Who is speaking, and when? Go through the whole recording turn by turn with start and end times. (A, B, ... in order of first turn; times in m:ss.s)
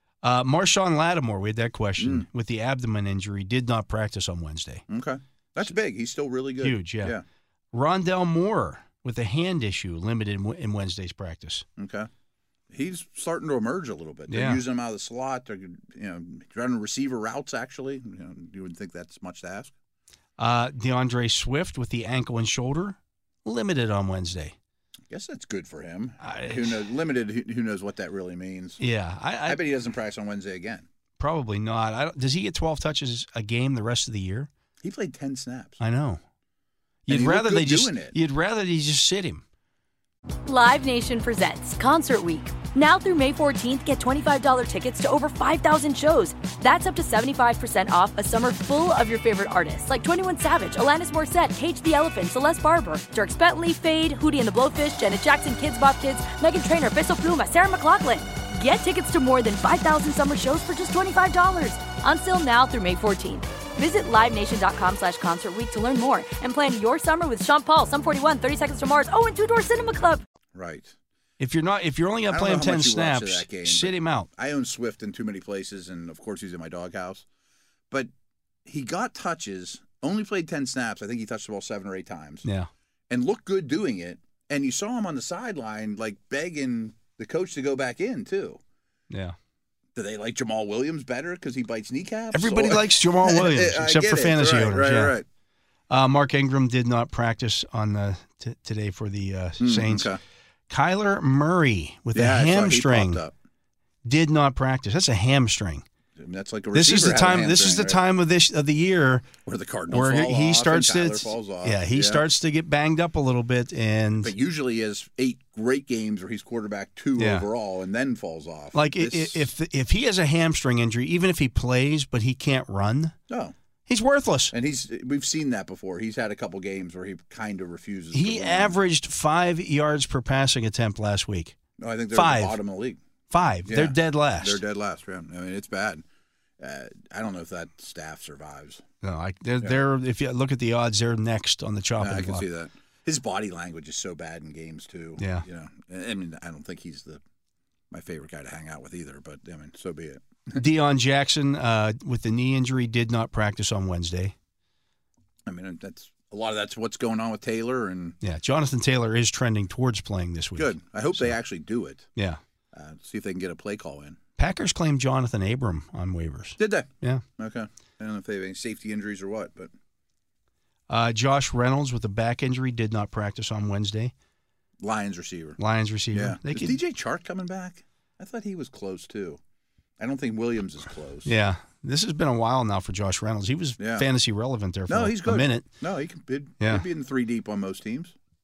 0:00.2-0:04.8 A
0:02.0-0:02.2 B
0:04.9-0:07.2 B
0:06.6-0:07.2 A
0:07.7-0:11.6 A
0:11.8-0:12.1 B
0:12.7-0:19.7 B
0:14.3-0:14.6 A
0:20.4-0:24.5 A
0:25.1-0:28.8 B
0:26.2-0:26.9 A
0:28.8-0:29.6 A
0:29.4-0:30.8 B
0:31.2-0:34.5 A
0:34.8-0:35.8 B
0:35.8-0:36.2 A
0:37.0-0:39.4 A
0:37.1-0:38.1 B
0:40.4-1:10.2 C
1:10.5-1:10.9 B
1:11.4-1:14.3 A
1:12.3-1:17.2 B
1:18.6-1:22.4 B
1:22.4-1:22.7 A
1:23.1-1:28.6 B
1:29.1-1:29.4 A
1:29.9-1:35.2 B
1:32.3-1:35.2 A
1:35.9-1:40.1 A
1:39.6-1:40.2 B
1:40.7-1:43.2 A
1:42.1-1:43.3 B
1:44.0-1:45.8 A
1:46.2-1:48.0 B
1:46.7-1:49.3 A
1:49.4-1:52.2 B
1:49.9-1:54.3 A
1:54.2-1:59.5 B
1:57.2-1:57.5 A
1:58.7-2:03.1 A
2:03.3-2:03.5 B
2:03.9-2:04.5 A
2:04.5-2:08.8 B
2:08.1-2:11.6 A
2:11.8-2:13.0 B
2:12.1-2:12.6 A
2:13.3-2:14.6 A
2:13.6-2:16.0 B
2:16.6-2:18.8 B
2:19.0-2:22.4 A
2:22.0-2:27.2 B
2:25.2-2:25.4 A
2:27.9-2:30.6 B
2:30.5-2:34.3 A
2:35.4-2:38.2 B
2:38.2-2:41.4 A
2:40.6-2:42.1 B
2:42.7-2:44.2 B
2:44.4-2:47.2 A
2:46.6-2:49.7 B
2:50.9-2:54.1 A
2:54.8-2:55.6 B
2:55.6-2:56.8 A
2:56.1-2:59.4 B
3:00.0-3:01.3 B
3:01.2-3:05.6 A
3:03.8-3:04.1 B
3:04.9-3:08.1 B